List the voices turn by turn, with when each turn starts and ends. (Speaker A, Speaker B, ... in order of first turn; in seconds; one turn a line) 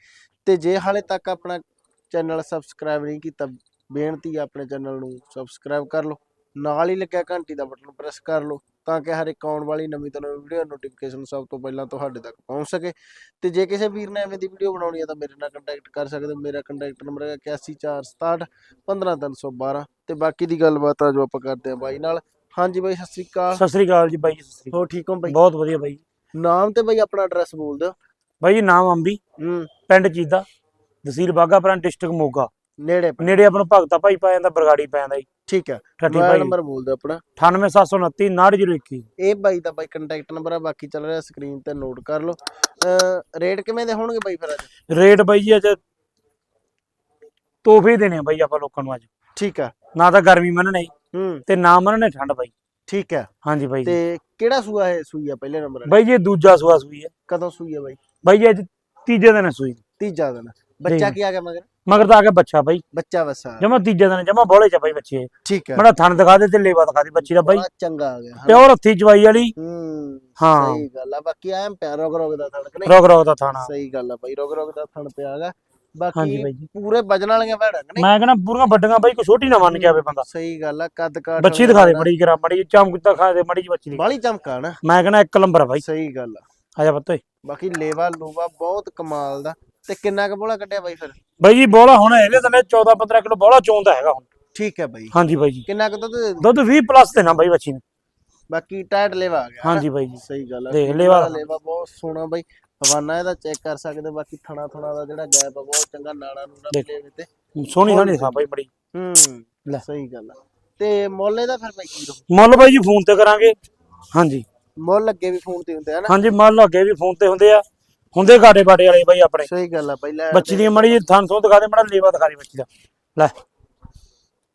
Speaker A: 0.4-23.6
Speaker B: 23.5-24.7
Speaker A: 24.7-25.4
Speaker B: 25.3-26.0
Speaker A: 26.4-27.9
Speaker B: 28.4-29.2
Speaker A: 29.4-29.7
Speaker B: 29.9-30.4
Speaker B: 31.0-32.5
Speaker A: 32.8-33.4
Speaker B: 33.2-35.2
Speaker A: 35.5-37.2
Speaker B: 36.0-36.5
Speaker B: 37.4-39.1
Speaker A: 39.2-44.7
Speaker B: 44.9-45.8
Speaker B: 47.6-49.1
Speaker A: 49.4-49.7
Speaker B: 49.9-50.9
Speaker A: 51.1-51.4
Speaker B: 51.5-52.5
Speaker A: 52.9-53.3
Speaker B: 53.4-54.0
Speaker A: 53.8-56.0
Speaker B: 55.9-57.1
Speaker A: 57.3-58.0
Speaker B: 58.2-59.8
Speaker A: 60.0-61.7
Speaker B: 60.9-61.1
Speaker B: 61.9-62.8
Speaker A: 62.9-63.8
Speaker B: 63.6-67.6
Speaker A: 65.4-65.8
Speaker A: 67.2-68.6
Speaker B: 68.5-69.5
Speaker A: 69.5-73.0
Speaker B: 70.4-70.8
Speaker B: 72.8-73.7
Speaker A: 73.6-78.1
Speaker B: 76.1-76.7
Speaker B: 78.0-80.2
Speaker A: 79.6-82.1
Speaker B: 81.4-84.0
Speaker A: 83.9-84.8
Speaker B: 84.8-85.8
Speaker A: 85.8-86.4
Speaker B: 86.8-87.2
Speaker A: 87.4-91.2
Speaker B: 91.4-94.2
Speaker A: 94.5-95.1
Speaker B: 95.1-95.6
Speaker A: 95.6-96.5
Speaker B: 96.4-97.8
Speaker A: 98.5-107.3
Speaker B: 99.6-101.4
Speaker B: 107.5-108.7
Speaker A: 107.8-112.3
Speaker B: 112.3-113.5
Speaker B: 114.1-114.4
Speaker A: 114.8-116.2
Speaker B: 116.1-117.6
Speaker B: 118.1-119.5
Speaker A: 119.4-121.0
Speaker B: 120.3-123.3